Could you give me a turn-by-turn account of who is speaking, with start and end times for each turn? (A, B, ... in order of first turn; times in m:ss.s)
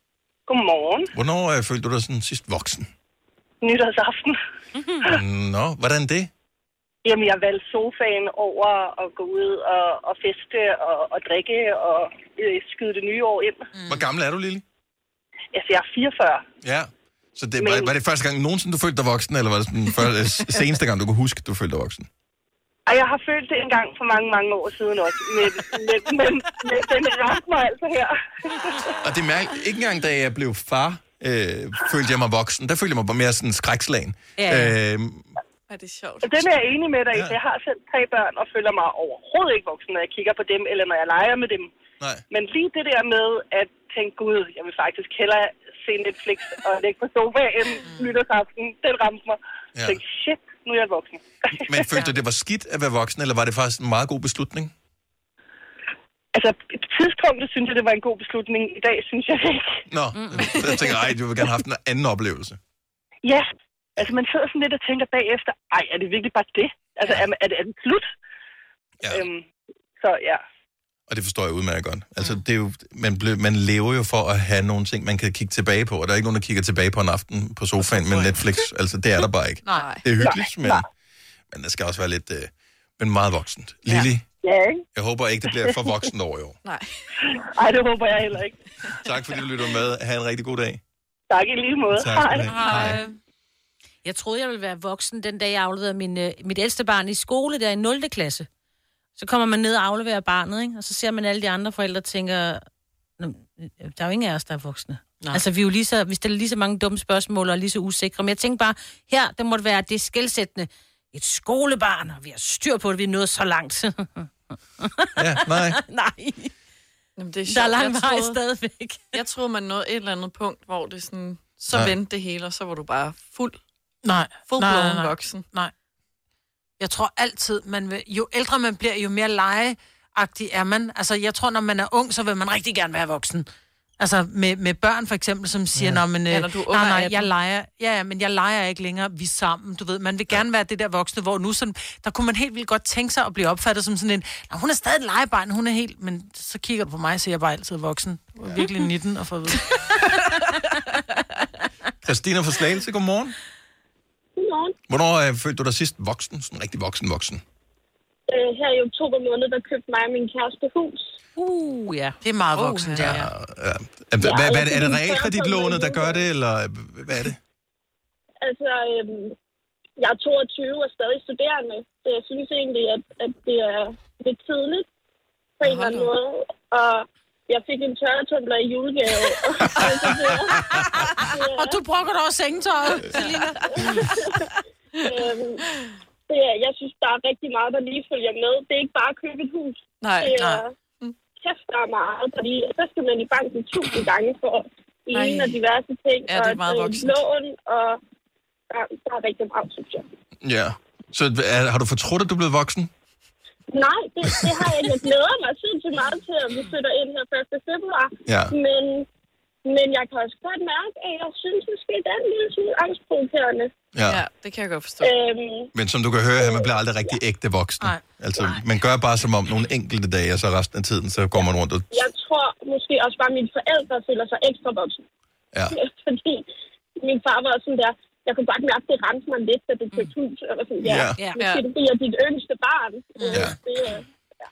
0:00.5-0:01.1 A
0:01.1-0:02.9 B
0:03.6-0:04.4 A
0:04.8-0:05.0 C
0:05.0-0:06.3 B
0:07.0-0:13.7 A
0:13.7-0:14.1 D
0:13.9-0:14.6 B
0:15.5-0:16.4 A
0:16.6-0:22.1 B
0:17.6-0:17.9 A
0:22.9-0:28.9 A
0:29.0-0:35.3 B
0:34.4-0:34.7 C
0:35.7-0:36.4 E
0:36.2-0:41.7 A
0:42.3-0:51.8 A
0:47.8-0:48.1 D
0:49.7-0:50.0 B
0:51.6-0:54.7 B
0:56.3-0:59.8 A
0:59.9-1:02.6 B
1:00.1-1:00.6 C
1:04.0-1:08.0 A
1:09.1-1:09.4 A
1:10.0-1:10.4 A
1:11.1-1:20.9 B
1:19.7-1:20.1 E
1:20.2-1:20.8 A
1:21.5-1:24.2 B
1:24.4-1:24.8 A
1:24.9-1:26.6 B
1:26.6-1:26.9 E
1:27.4-1:28.6 A
1:29.0-1:30.8 B
1:31.3-1:32.6 A
1:31.9-1:33.0 B
1:32.5-1:33.2 D
1:34.0-1:38.5 C
1:39.2-1:42.6 C
1:43.2-1:54.3 C
1:54.8-1:56.5 C
1:55.2-1:55.8 B
1:57.2-1:58.4 E
1:57.5-1:59.2 C
1:59.1-2:03.6 E
2:04.0-2:05.7 D
2:04.4-2:05.4 E
2:06.8-2:13.4 D
2:14.0-2:29.6 D
2:15.7-2:16.0 B
2:16.3-2:17.3 E
2:32.0-2:33.3 B
2:34.4-2:34.7 F
2:34.9-2:37.4 B
2:38.3-2:41.1 F
2:41.4-2:43.2 C
2:42.2-2:43.2 D
2:43.0-2:47.4 B
2:44.2-2:46.2 F
2:48.4-2:49.3 F
2:50.0-2:54.9 F
2:55.6-3:01.8 F
2:55.6-2:56.1 E
2:59.8-3:00.9 B
3:01.5-3:03.7 D
3:03.8-3:04.4 F
3:05.0-3:05.6 F
3:06.3-3:10.7 F
3:10.0-3:10.4 E
3:10.4-3:10.6 D
3:11.4-3:18.0 F
3:15.1-3:15.6 E
3:16.3-3:17.2 E
3:18.7-3:20.1 F
3:20.4-3:22.9 B
3:23.7-3:29.1 F
3:24.2-3:24.9 B
3:28.3-3:28.5 B
3:29.6-3:33.7 F
3:33.9-3:34.2 B
3:34.0-3:35.1 E
3:35.0-3:35.7 F
3:35.7-3:42.0 B
3:36.4-3:37.2 F
3:41.9-3:45.0 F
3:45.7-3:46.4 F
3:47.0-3:54.0 F
3:50.8-3:51.2 B
3:51.1-3:51.4 C
3:51.4-3:51.6 E
3:53.2-3:53.5 D